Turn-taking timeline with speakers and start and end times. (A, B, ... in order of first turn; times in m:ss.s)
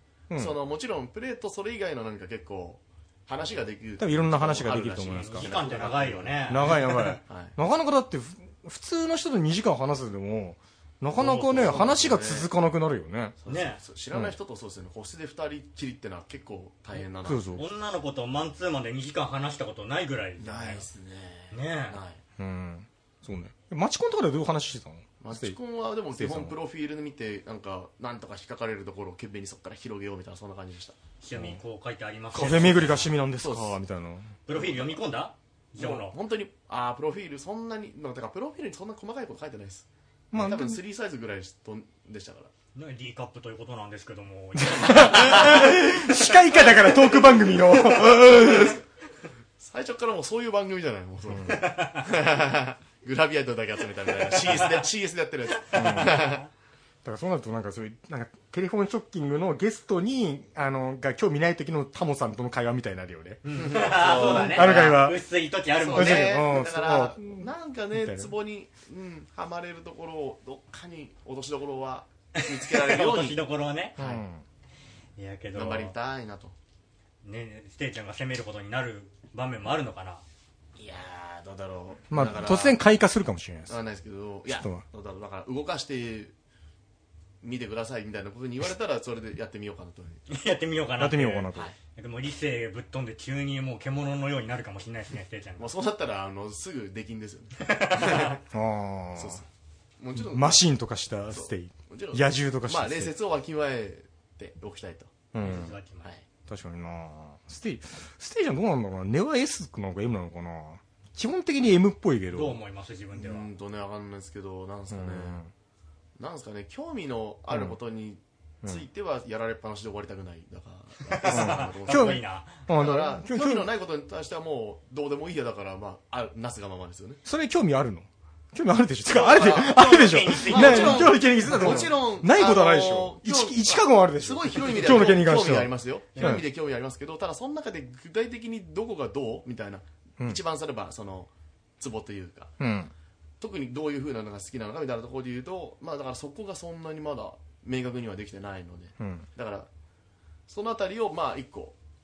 0:00.3-0:00.6 A
0:00.3-0:07.6 B
0:04.0-0:05.5 A
0:05.0-0:07.2 C
0:06.5-0:13.4 A
0:11.2-0:11.9 C
0:11.4-0:12.5 B
0:13.4-0:17.5 B
0:13.4-0:13.8 C
0:17.2-0:17.6 A
0:17.6-0:20.8 C
0:20.4-0:22.2 B
0:21.5-0:22.0 C
0:22.4-0:25.6 A
0:25.2-0:31.0 B
0:26.1-0:26.6 A
0:31.2-0:33.1 C
0:31.3-0:31.6 A
0:32.3-0:34.3 A
0:33.4-0:33.8 B
0:34.5-0:36.2 C
0:34.5-0:35.0 B
0:35.8-0:42.5 B
0:40.3-0:40.8 A
0:42.7-0:47.6 C
0:44.6-0:48.8 A
0:44.9-0:45.8 B
0:47.8-0:48.8 B
0:49.6-0:56.4 B
0:51.3-0:51.6 A
0:51.5-0:52.0 C
0:54.5-0:54.8 C
0:55.7-0:56.3 C
0:55.7-0:56.2 A
0:57.0-1:03.4 A
1:03.4-1:06.5 C
1:03.5-1:05.1 B
1:04.1-1:05.2 A
1:05.8-1:13.4 B
1:05.9-1:08.3 A
1:12.4-1:14.0 C
1:14.0-1:14.2 B
1:14.0-1:14.4 A
1:15.2-1:15.9 C
1:15.5-1:16.5 B
1:17.2-1:20.2 C
1:20.8-1:22.8 B
1:22.1-1:23.8 A
1:23.7-1:26.3 B
1:24.5-1:24.8 A
1:27.4-1:30.2 B
1:30.3-1:35.7 C
1:31.0-1:31.7 A
1:35.6-1:38.4 B
1:37.6-1:38.4 C
1:38.5-1:39.4 A
1:39.2-1:39.4 B
1:40.0-1:40.6 B
1:40.1-1:43.1 A
1:41.3-1:46.2 B
1:45.3-1:45.8 A
1:45.4-1:46.1 C
1:46.5-1:52.6 A
1:52.3-1:53.5 C
1:53.2-1:55.4 B
1:54.9-1:55.5 A
1:56.2-2:07.2 B
1:57.5-1:57.7 A
2:01.0-2:02.6 C
2:01.3-2:03.7 A
2:07.2-2:16.4 A
2:09.1-2:11.9 C
2:09.1-2:22.5 B
2:16.1-2:16.4 C
2:22.6-2:22.9 A
2:23.4-2:29.7 B
2:29.0-2:29.2 A
2:30.5-2:31.8 B